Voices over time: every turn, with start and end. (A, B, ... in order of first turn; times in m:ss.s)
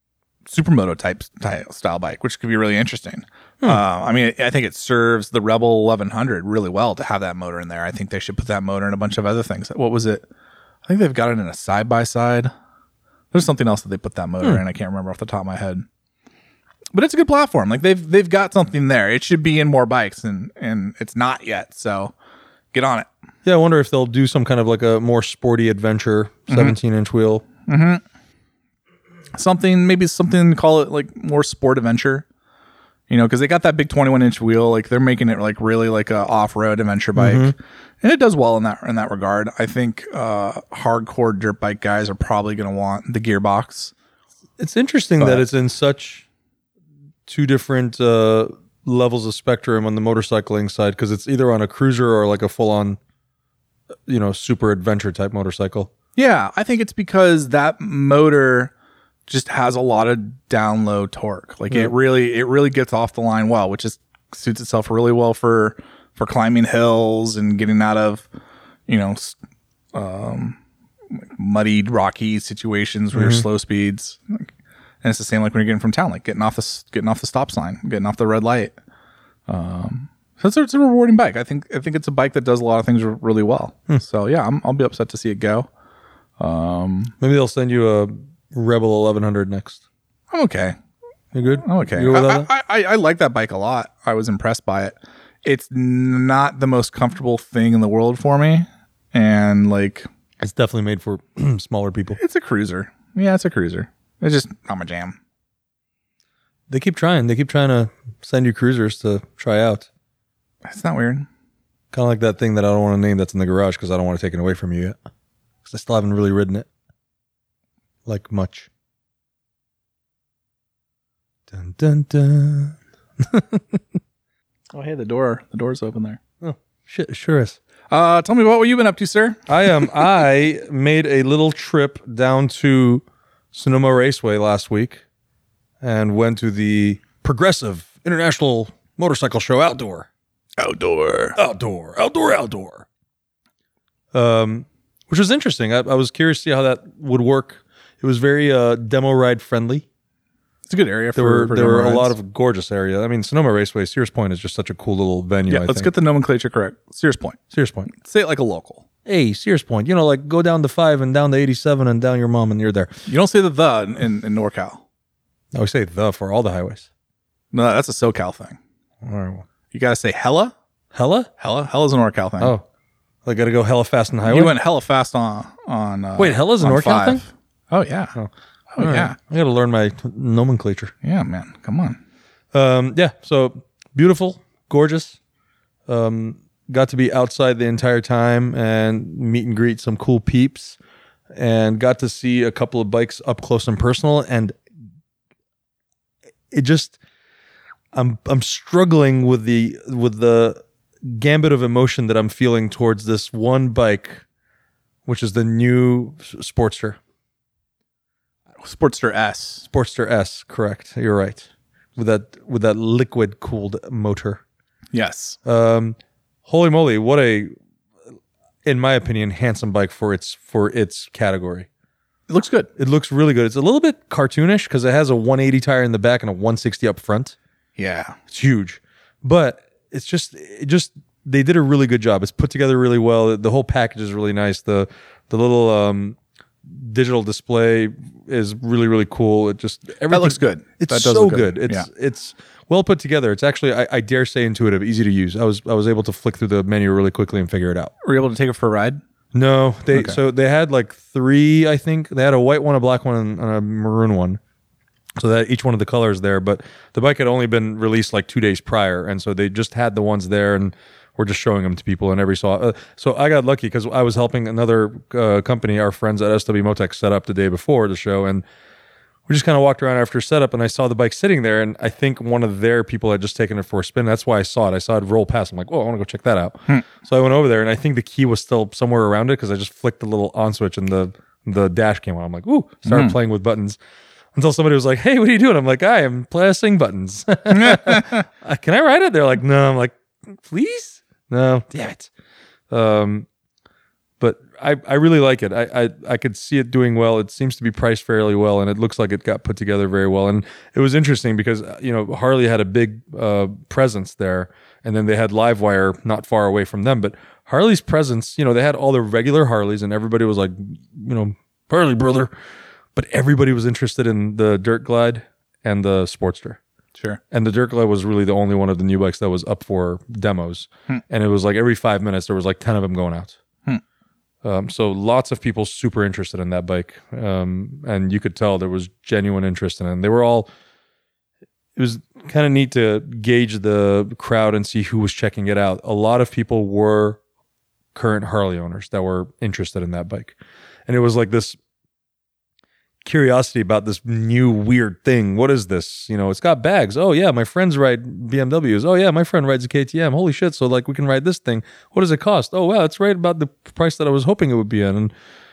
0:00.4-0:10.2 A
0:10.8-0:12.5 A
0:13.3-0:15.8 A
0:16.9-0:22.1 A
0:22.7-0:23.1 A
0:23.4-0:27.4 B
0:26.5-0:26.8 A
0:27.6-0:28.0 A
0:29.4-0:32.2 A
0:33.1-0:43.9 A
0:37.2-0:37.5 B
0:44.6-0:46.2 B
0:45.2-0:45.4 A
0:47.3-0:53.0 B
0:54.0-0:55.9 B
0:56.2-0:58.7 A
0:59.3-1:08.3 A
1:08.9-1:09.4 A
1:09.9-1:10.6 A
1:11.1-1:14.5 A
1:13.1-1:13.4 B
1:15.0-1:18.7 A
1:19.5-1:25.7 A
1:26.4-1:27.1 A
1:27.2-1:29.8 B
1:30.3-1:30.8 A
1:31.3-1:32.5 B
1:31.6-1:40.1 A
1:40.4-1:42.2 B
1:42.2-1:45.2 A
1:46.7-1:49.9 B
1:50.6-1:51.3 A
1:51.9-1:55.0 B
1:55.6-1:56.7 B
1:58.0-1:58.7 B
2:01.5-2:03.8 B
2:04.7-2:06.2 A
2:06.4-2:07.6 B
2:07.9-2:10.0 A
2:09.5-2:15.0 B
2:15.8-2:20.1 B
2:20.6-2:21.4 A
2:21.4-2:22.8 B
2:24.1-2:29.8 B
2:30.7-2:32.1 A
2:31.1-2:35.9 B
2:35.5-2:38.8 A
2:37.5-2:37.9 B
2:39.0-2:42.9 B
2:43.1-2:44.8 A
2:45.5-2:46.9 B
2:47.5-2:48.6 A
2:49.0-2:49.4 B
2:49.7-2:50.5 A
2:50.9-2:51.3 B
2:51.4-2:52.5 A
2:53.2-2:54.6 B
2:54.2-2:58.1 A
2:56.2-2:57.2 B
2:58.1-3:00.9 B
2:58.7-2:59.2 A
3:01.0-3:02.0 A
3:02.5-3:05.2 B
3:05.9-3:10.8 B
3:11.3-3:14.6 B
3:16.5-3:17.0 B
3:17.9-3:24.2 B
3:25.0-3:27.0 B
3:28.6-3:29.6 A
3:29.6-3:34.4 B
3:34.9-3:35.4 A
3:35.4-3:37.5 B
3:38.6-3:41.7 B
3:42.3-3:42.7 A
3:42.8-3:47.4 B
3:47.8-3:48.2 A
3:48.3-4:07.9 B
4:00.1-4:01.9 A
4:08.0-4:09.0 A
4:09.3-4:14.4 B
4:09.9-4:10.2 A
4:15.2-4:28.4 B
4:29.3-4:43.8 B
4:42.8-4:43.2 A
4:44.3-4:52.1 B
4:47.5-4:48.2 A
4:52.7-4:53.3 B
4:54.2-5:12.3 B
5:12.9-5:16.6 B
5:17.3-5:23.4 B
5:24.4-5:30.5 B
5:31.8-5:37.2 B
5:37.9-5:40.4 B
5:40.9-5:41.6 B
5:43.0-5:55.1 B